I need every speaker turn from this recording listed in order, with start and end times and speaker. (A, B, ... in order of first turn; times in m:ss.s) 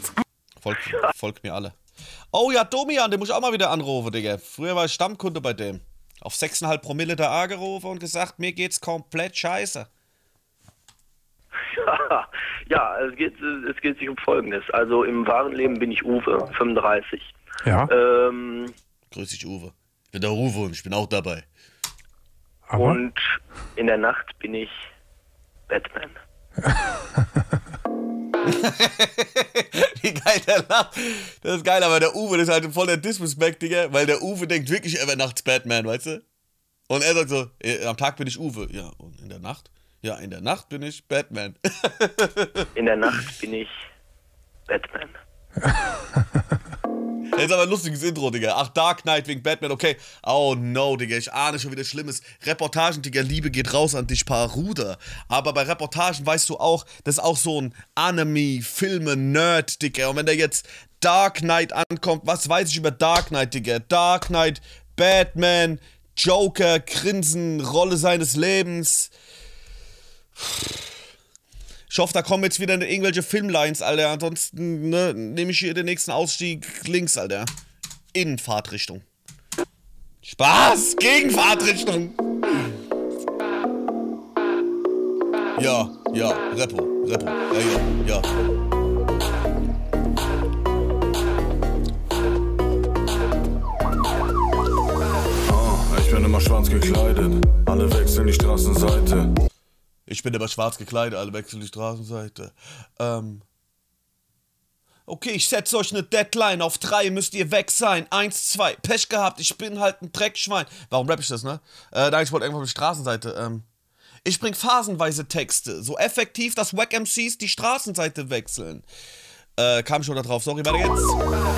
0:00.6-0:01.7 A
0:02.3-0:09.9 A
0:11.7-0:18.7 B
0:19.1-0:21.5 A
0:22.7-0:24.7 B
0:25.7-0:26.2 B
0:28.4-0:36.2 A
0:36.9-0:42.7 A
0:42.8-0:43.7 B
0:44.7-0:45.2 B
0:47.3-1:09.1 A
1:10.4-1:10.8 A
1:11.9-1:17.5 A
1:18.1-1:19.0 A
1:20.2-1:22.6 A
1:25.6-1:28.3 A
1:35.4-1:39.3 C
1:40.1-1:43.4 A
1:45.0-1:53.6 A
1:54.2-1:58.8 A
1:59.6-2:01.2 A